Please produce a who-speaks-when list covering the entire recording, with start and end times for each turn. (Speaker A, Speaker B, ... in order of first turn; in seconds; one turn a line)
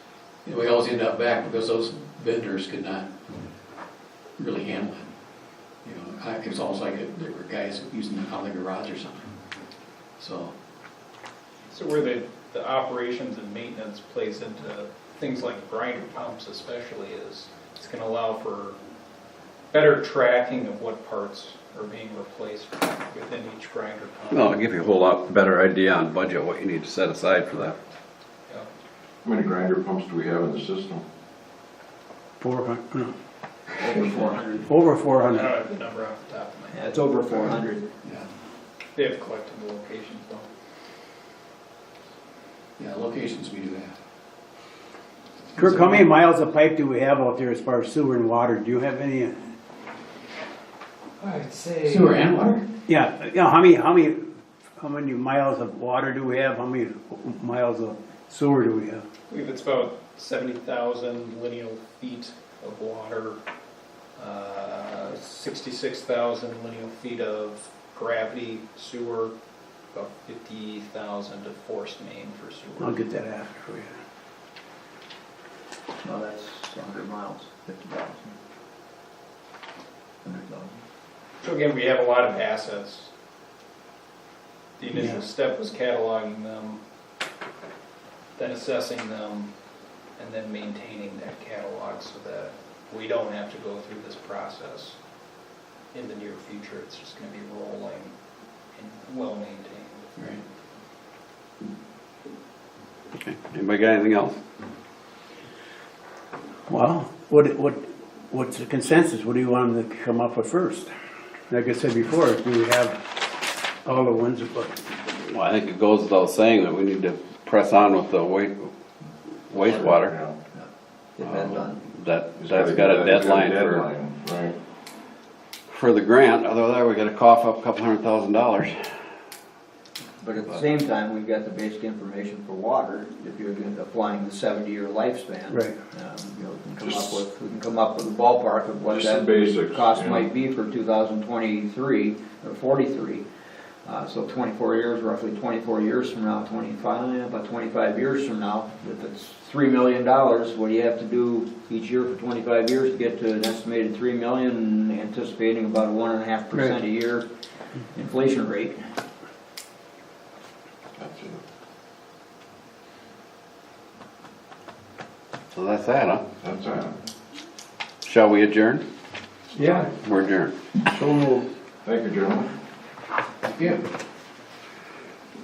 Speaker A: 0.4-3.1
Speaker A: 4.4-5.1
Speaker A: 5.8-9.3
Speaker A: 10.2-10.5
Speaker B: 11.7-18.8
Speaker B: 19.7-24.6
Speaker C: 24.3-27.8
Speaker D: 29.2-31.0
Speaker E: 32.4-33.1
Speaker F: 33.8-34.7
Speaker E: 34.6-35.5
Speaker B: 35.3-36.8
Speaker F: 36.7-37.9
Speaker A: 38.0-38.3
Speaker B: 39.0-40.5
Speaker A: 42.8-44.0
Speaker A: 45.5-46.1
Speaker E: 45.6-49.5
Speaker A: 51.8-52.6
Speaker E: 52.9-59.0
Speaker B: 59.3-63.4
Speaker B: 64.2-69.3
Speaker B: 69.9-73.0
Speaker E: 72.8-74.0
Speaker F: 76.0-78.3
Speaker F: 80.2-80.8
Speaker B: 81.4-83.1
Speaker B: 84.8-86.8
Speaker B: 88.3-89.5
Speaker B: 90.2-95.0
Speaker B: 95.9-98.1
Speaker B: 98.7-100.1
Speaker A: 100.2-100.4
Speaker C: 103.1-104.3
Speaker E: 106.7-110.9
Speaker E: 111.5-114.8
Speaker C: 115.1-118.7
Speaker C: 119.5-120.2
Speaker D: 119.9-120.4
Speaker F: 121.2-121.8
Speaker C: 121.3-123.9
Speaker D: 122.4-124.6
Speaker C: 125.7-128.7
Speaker F: 130.2-143.2
Speaker E: 135.5-135.8
Speaker D: 136.8-137.2
Speaker D: 138.9-140.3
Speaker F: 143.8-157.3
Speaker F: 157.9-158.8
Speaker D: 161.0-161.4
Speaker C: 165.5-166.2
Speaker D: 166.4-167.0
Speaker C: 168.0-168.8
Speaker E: 169.6-169.9
Speaker C: 170.0-170.5
Speaker E: 170.9-171.4
Speaker D: 171.8-172.5
Speaker A: 173.4-173.8